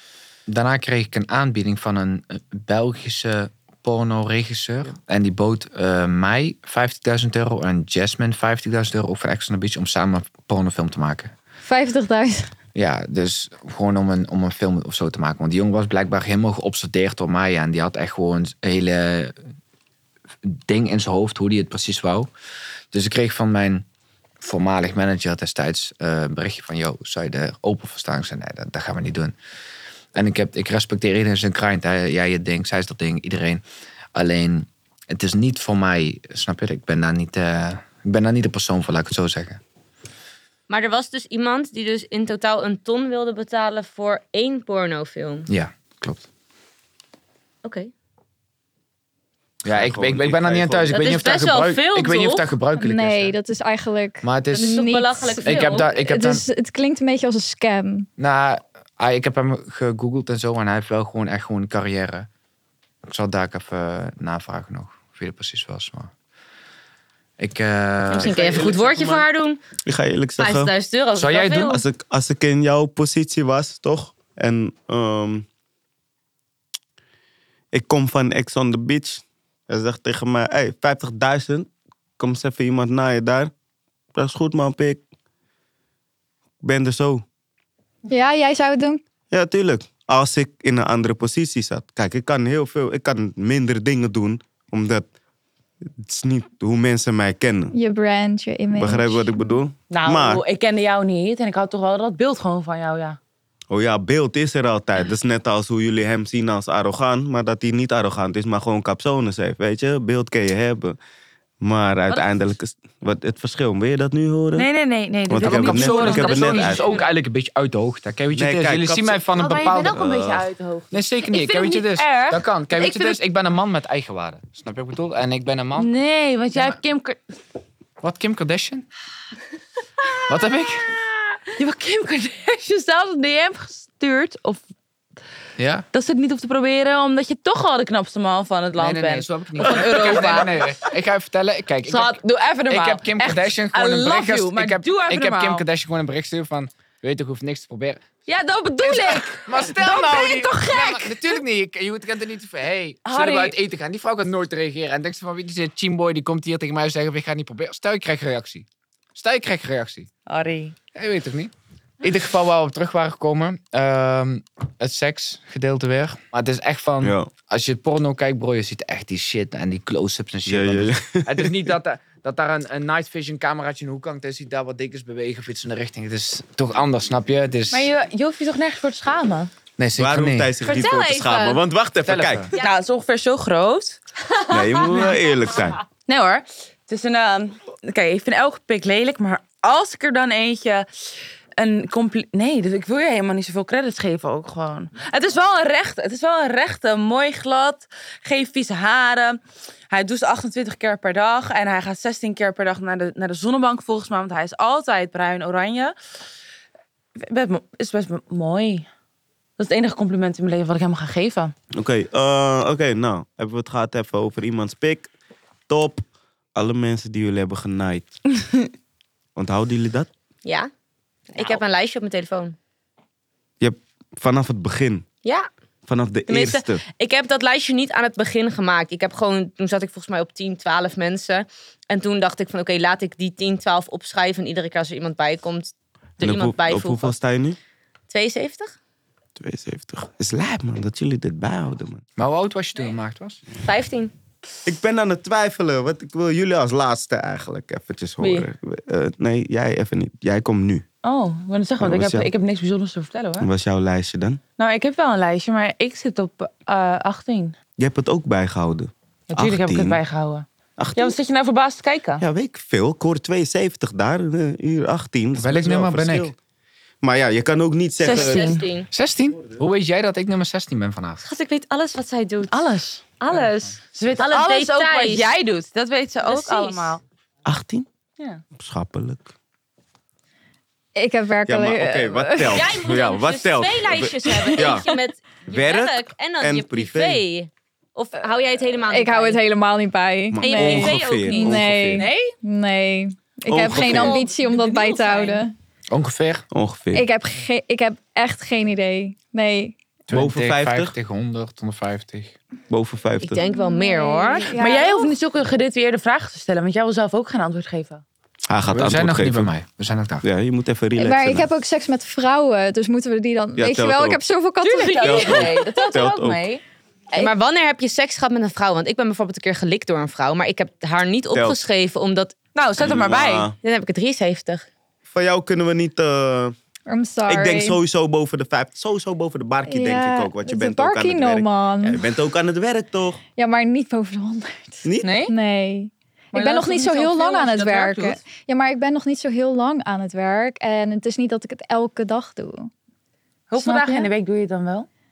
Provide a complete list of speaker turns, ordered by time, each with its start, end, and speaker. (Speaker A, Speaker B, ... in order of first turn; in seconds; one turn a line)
Speaker A: 0.5-11.3
Speaker B: 11.6-12.5
Speaker A: 12.7-19.3
Speaker A: 20.4-22.3
Speaker A: 22.9-23.9
Speaker A: 24.4-29.3
Speaker A: 30.1-33.6
Speaker A: 34.1-39.6
Speaker C: 40.7-45.5
Speaker A: 45.5-46.3
Speaker C: 47.6-47.9
Speaker A: 49.6-53.4
Speaker D: 49.6-51.3
Speaker C: 50.9-52.5
Speaker B: 52.8-58.1
Speaker A: 54.2-54.8
Speaker C: 54.5-55.9
Speaker A: 55.4-56.5
Speaker A: 58.2-62.3
Speaker A: 63.0-66.1
Speaker A: 67.4-68.8
Speaker C: 68.1-69.6
Speaker D: 68.2-69.2
Speaker D: 69.8-70.7
Speaker C: 70.4-71.8
Speaker A: 71.2-71.8
Speaker D: 71.6-75.5
Speaker D: 77.7-83.5
Speaker D: 84.1-85.0
Speaker D: 86.6-87.2
Speaker B: 88.1-89.0
Speaker D: 89.3-95.1
Speaker D: 96.0-97.7
Speaker B: 97.7-99.4
Speaker D: 98.7-100.4
Speaker E: 99.9-103.2
Speaker D: 103.7-111.0
Speaker D: 111.6-114.7
Speaker E: 114.6-117.1
Speaker D: 115.3-116.9
Speaker A: 115.4-120.0
Speaker D: 118.3-120.5
Speaker E: 119.3-123.2
Speaker A: 120.9-125.9
Speaker E: 125.8-127.2
Speaker A: 128.0-128.9
Speaker A: 130.3-131.0
Speaker E: 131.6-134.6
Speaker A: 135.6-135.8
Speaker E: 135.9-140.8
Speaker A: 138.8-148.1
Speaker E: 141.9-145.7
Speaker E: 148.3-151.4
Speaker A: 148.8-160.1
Speaker E: 153.1-153.6
Speaker E: 160.3-160.8
Speaker A: 160.9-177.9
Speaker D: 167.0-167.3
Speaker D: 170.5-171.6
Speaker E: 177.7-179.5
Speaker A: 179.8-180.6
Speaker D: 180.0-182.5
Speaker C: 180.6-181.6
Speaker A: 182.0-182.5
Speaker E: 182.6-184.0
Speaker D: 184.5-185.8
Speaker E: 184.8-185.1
Speaker E: 186.1-190.9
Speaker E: 191.6-199.4
Speaker E: 199.9-205.9
Speaker E: 207.2-208.9
Speaker E: 209.6-211.5
Speaker D: 211.8-215.1
Speaker D: 215.7-218.1
Speaker D: 219.4-220.1
Speaker C: 220.4-220.7
Speaker C: 221.3-222.6
Speaker D: 223.6-225.1
Speaker C: 225.2-225.5
Speaker D: 225.9-226.8
Speaker C: 226.3-237.2
Speaker D: 236.2-237.6
Speaker C: 238.1-238.8
Speaker D: 239.4-242.0
Speaker A: 242.2-243.4
Speaker C: 243.6-244.1
Speaker D: 244.7-250.8
Speaker C: 248.2-248.5
Speaker E: 251.0-253.5
Speaker D: 251.8-252.3
Speaker D: 253.4-254.4
Speaker E: 254.6-257.6
Speaker D: 257.8-260.0
Speaker E: 259.3-262.2
Speaker D: 260.8-261.1
Speaker D: 262.2-266.4
Speaker A: 265.4-266.3
Speaker D: 267.0-268.5
Speaker C: 268.0-268.9
Speaker E: 268.1-268.6
Speaker A: 268.9-271.2
Speaker C: 271.2-272.5
Speaker E: 272.5-277.0
Speaker C: 274.2-275.4
Speaker C: 276.2-277.0
Speaker D: 277.4-277.9
Speaker D: 278.6-279.3
Speaker B: 280.9-282.7
Speaker D: 281.5-284.9
Speaker C: 282.4-289.4
Speaker D: 285.5-287.2
Speaker B: 288.9-295.5
Speaker D: 290.3-292.1
Speaker C: 290.4-291.6
Speaker E: 292.0-292.3
Speaker D: 293.5-294.2
Speaker E: 293.7-295.4
Speaker A: 295.9-296.5
Speaker D: 296.5-297.1
Speaker B: 296.9-299.8
Speaker A: 300.1-302.4
Speaker D: 300.1-300.9
Speaker D: 302.7-303.4
Speaker C: 303.2-304.6
Speaker B: 303.4-305.1
Speaker E: 304.6-308.0
Speaker D: 308.5-309.5
Speaker A: 308.7-310.3
Speaker D: 310.2-311.5
Speaker B: 311.0-315.6
Speaker D: 313.6-314.2
Speaker E: 314.6-316.6
Speaker D: 315.0-316.4
Speaker C: 317.1-322.4
Speaker D: 321.3-321.6
Speaker E: 322.6-323.5
Speaker D: 322.8-323.6
Speaker C: 323.6-324.7
Speaker D: 325.1-326.6
Speaker B: 326.9-327.8
Speaker D: 327.3-333.2
Speaker B: 329.7-332.1
Speaker B: 333.4-342.7
Speaker D: 334.8-335.1
Speaker E: 335.0-335.3
Speaker E: 336.3-338.2
Speaker E: 343.5-344.9
Speaker B: 343.6-344.1